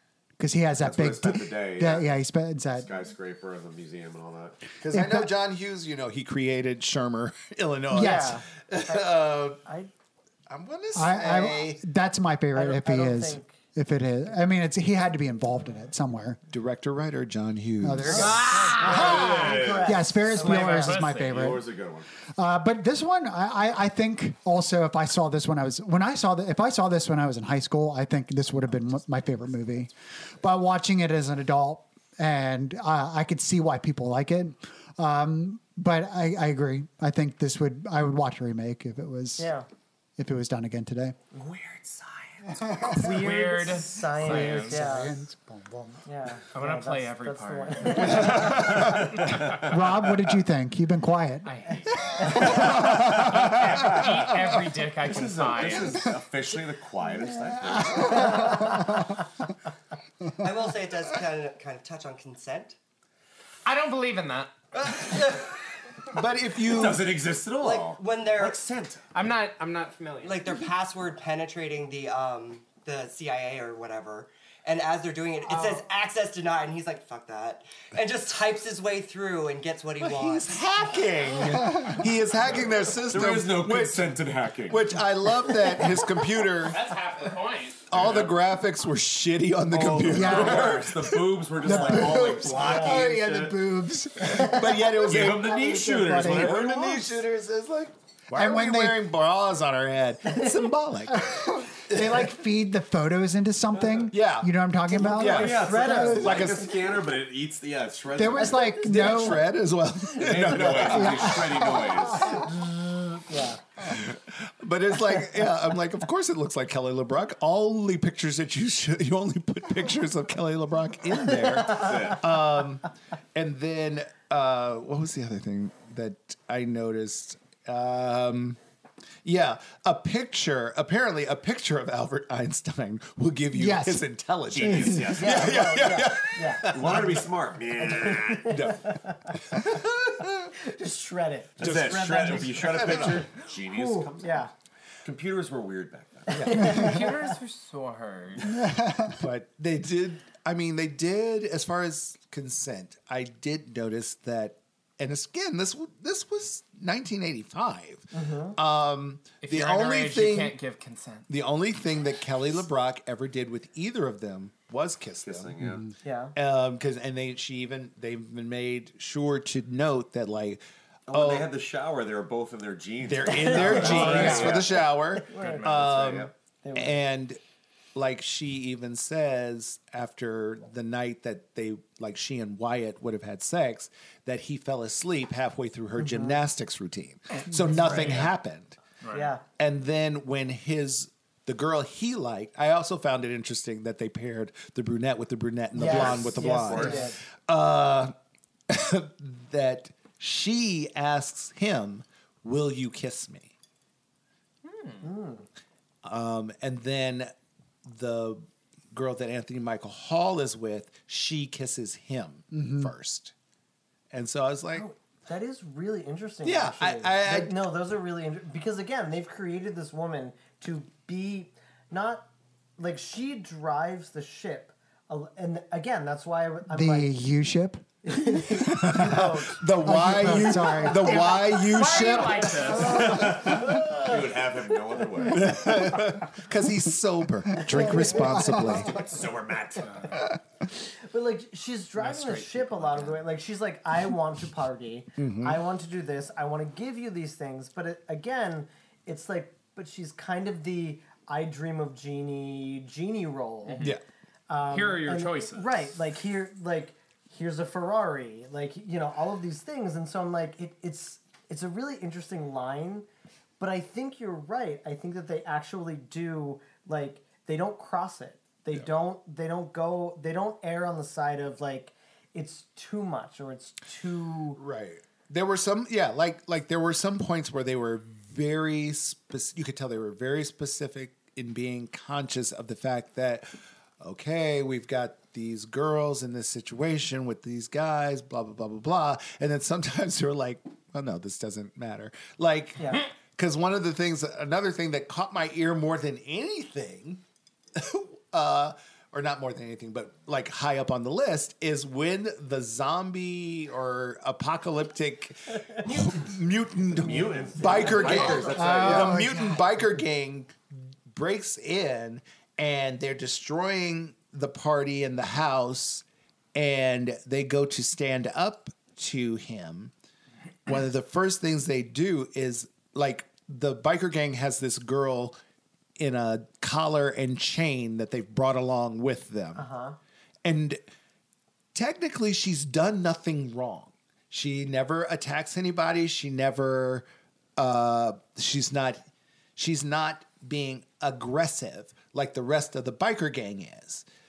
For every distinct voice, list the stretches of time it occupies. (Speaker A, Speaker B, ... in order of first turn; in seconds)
Speaker A: 0.4-2.9, 4.9-5.3, 7.9-8.4, 11.0-16.4, 17.8-18.5, 19.1-21.6, 22.4-39.5, 40.2-41.2, 42.7-43.1, 44.2-46.0, 48.6-51.5, 52.2-53.5, 58.1-58.5, 90.1-97.2, 98.3-99.0, 101.1-106.5, 108.2-109.5, 110.8-112.3, 133.6-134.0, 212.5-212.9, 226.7-227.9, 229.8-232.0, 237.7-238.9, 308.5-309.6
Speaker B: 0.8-2.1, 2.7-4.6, 18.8-20.0, 21.2-22.1, 48.3-49.7, 52.6-54.3, 55.0-58.5, 66.6-69.1, 82.9-84.9, 87.9-88.3, 89.7-93.5, 95.0-96.9, 105.0-108.9, 110.2-112.4, 121.6-122.2, 134.5-136.0, 136.7-138.6, 141.6-144.5, 145.0-146.6, 165.2-165.9, 171.1-174.9, 175.5-176.3, 187.9-188.2, 195.8-197.1, 232.8-235.6, 238.7-240.2, 306.9-309.3
Speaker C: 4.8-9.6, 10.5-11.8, 16.5-18.4, 66.1-67.1, 80.0-86.8, 87.9-91.0, 92.7-93.5, 94.2-102.3, 104.1-106.7, 108.8-111.6, 113.8-128.6, 129.2-137.3, 138.4-140.5, 141.6-143.3, 146.3-147.0, 149.0-160.6, 161.3-165.5, 166.3-171.5, 173.0-177.4, 177.9-188.8, 189.6-198.1, 198.7-203.5, 206.0-207.3, 207.8-213.3, 214.1-214.9, 216.4-217.7, 228.7-233.0, 235.3-239.1, 245.2-245.6, 274.6-297.2, 297.8-310.6, 311.1-319.9, 320.7-325.4, 326.0-329.6, 330.4-330.8, 331.7-339.0, 339.6-344.1
Speaker D: 7.9-9.1, 9.6-9.9, 12.5-13.6, 18.1-21.0, 39.4-39.7, 42.9-45.2, 46.1-49.2, 92.5-93.1, 100.3-100.6, 105.1-106.6, 108.6-109.1, 110.2-111.3, 112.2-113.6, 135.1-137.1, 138.0-139.4, 140.6-144.5, 146.4-147.1, 158.1-158.6, 166.0-166.3, 173.3-174.7, 175.3-175.7, 176.6-177.0, 186.0-186.4, 189.1-189.4, 195.8-197.2, 205.0-205.4, 214.7-227.2, 228.0-231.3, 232.6-234.4, 237.6-238.9, 240.8-253.9, 254.5-263.1, 263.6-274.6, 292.8-293.1, 307.3-308.4, 329.6-330.0
Speaker E: 18.1-19.6, 20.4-21.6, 43.0-44.8, 46.5-48.5, 51.4-56.1, 63.6-64.5, 69.1-70.4, 86.6-88.0, 146.6-148.5, 159.4-161.3, 173.8-174.6, 175.4-175.8, 187.9-188.3, 189.0-189.3, 204.6-205.1, 231.5-233.1, 242.0-243.3, 253.7-253.9, 254.7-255.9
Speaker F: 60.4-62.8, 64.8-65.4, 67.5-68.6, 70.2-80.5, 307.9-308.8